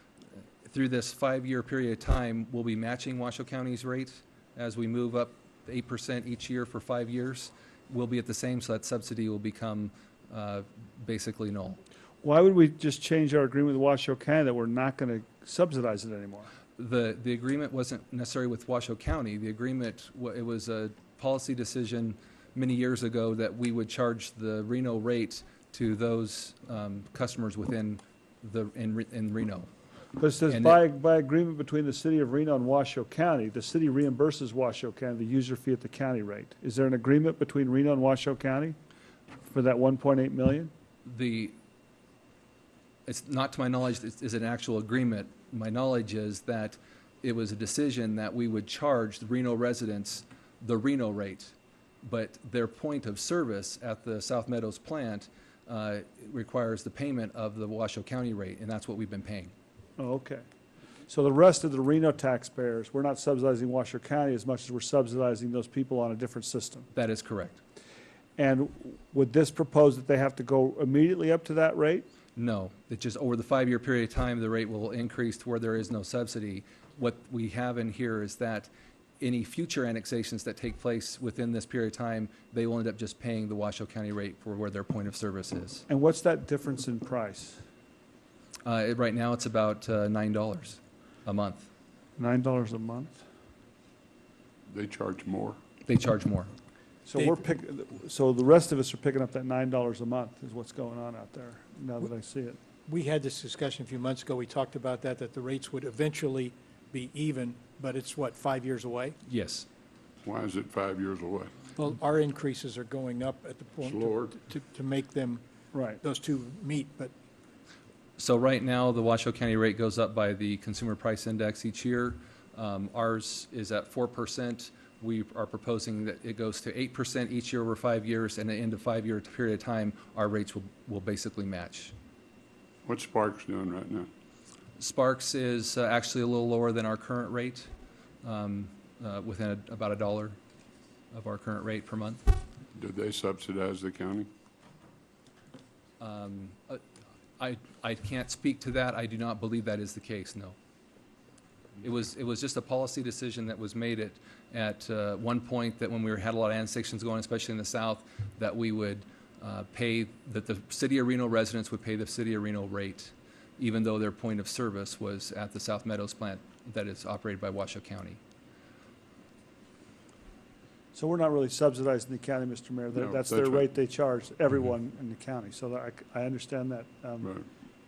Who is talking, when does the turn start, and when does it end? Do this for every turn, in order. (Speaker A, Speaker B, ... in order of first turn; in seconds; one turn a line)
Speaker A: 0.7-11.8
Speaker B: 12.2-16.5
Speaker A: 16.8-29.7
Speaker B: 30.2-38.8
Speaker A: 30.5-30.8
Speaker B: 39.4-40.7
Speaker A: 41.0-41.5
Speaker A: 43.1-59.5
Speaker B: 60.0-60.5
Speaker B: 61.1-66.9
Speaker A: 66.9-67.6
Speaker B: 68.4-72.1
Speaker A: 72.4-85.9
Speaker B: 85.9-87.6
Speaker A: 88.7-91.7
Speaker B: 92.2-93.2
Speaker C: 94.7-95.6
Speaker A: 95.9-96.5
Speaker B: 97.1-102.6
Speaker D: 97.2-97.4
Speaker D: 102.9-109.2
Speaker A: 109.3-109.7
Speaker C: 110.2-111.7
Speaker D: 111.8-115.4
Speaker C: 113.8-114.3
Speaker B: 115.7-116.0
Speaker D: 116.0-117.1
Speaker A: 118.2-131.9
Speaker C: 132.8-134.1
Speaker A: 134.8-137.7
Speaker A: 138.2-140.4
Speaker A: 141.1-142.2
Speaker C: 142.8-144.3
Speaker A: 146.0-146.8
Speaker A: 147.4-150.6
Speaker A: 151.8-168.2
Speaker B: 170.9-177.4
Speaker C: 173.0-173.7